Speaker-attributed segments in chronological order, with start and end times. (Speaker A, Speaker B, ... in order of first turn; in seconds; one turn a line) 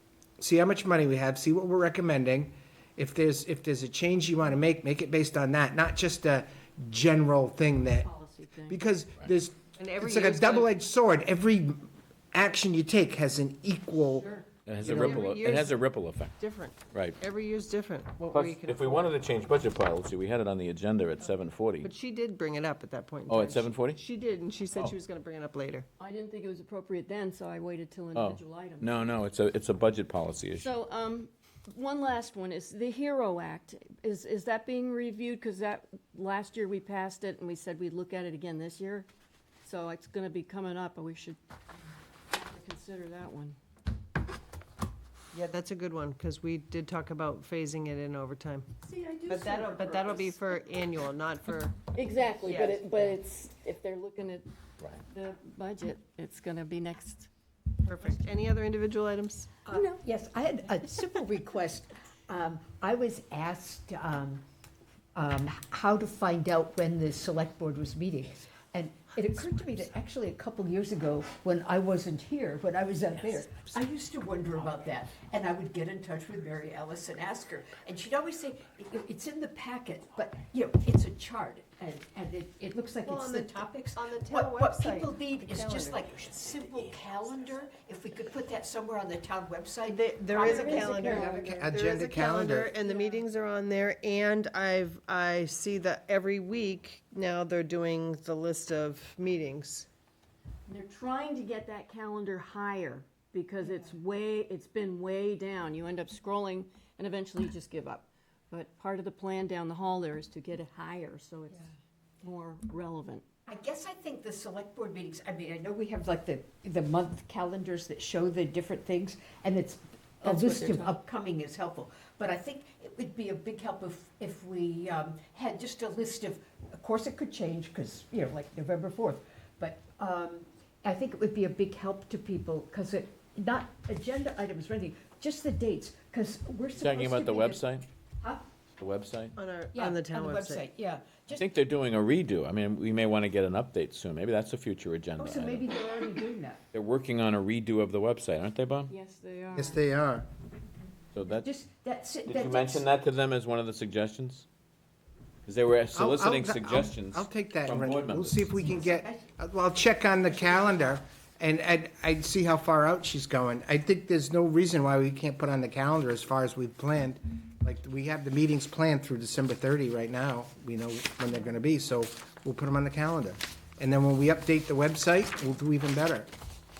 Speaker A: 0.4-8.1
Speaker B: 8.0-8.8
Speaker A: 8.7-14.4
Speaker C: 9.8-10.7
Speaker C: 14.4-15.8
Speaker D: 14.7-16.4
Speaker C: 16.4-19.1
Speaker D: 16.9-17.2
Speaker D: 18.3-21.9
Speaker C: 21.8-25.9
Speaker D: 23.3-24.0
Speaker B: 26.0-29.1
Speaker D: 28.1-30.8
Speaker B: 30.6-39.1
Speaker B: 39.6-41.4
Speaker B: 42.3-43.6
Speaker C: 45.3-53.1
Speaker B: 49.0-49.9
Speaker B: 51.9-54.5
Speaker B: 55.0-57.3
Speaker C: 57.8-59.6
Speaker E: 59.7-64.4
Speaker B: 59.7-60.0
Speaker E: 65.1-91.4
Speaker C: 83.0-86.0
Speaker C: 90.1-99.9
Speaker B: 90.4-91.3
Speaker A: 91.4-92.7
Speaker B: 100.7-111.7
Speaker B: 112.2-113.2
Speaker E: 113.5-137.6
Speaker B: 120.2-121.0
Speaker D: 136.8-137.9
Speaker D: 138.8-139.3
Speaker C: 139.3-140.7
Speaker E: 139.7-141.4
Speaker D: 141.3-145.7
Speaker E: 145.2-146.6
Speaker D: 146.7-148.9
Speaker B: 148.9-149.8
Speaker A: 149.5-150.2
Speaker D: 151.1-151.5
Speaker E: 151.3-152.9
Speaker D: 152.3-154.4
Speaker D: 155.4-158.5
Speaker A: 155.9-176.3
Speaker E: 158.6-159.2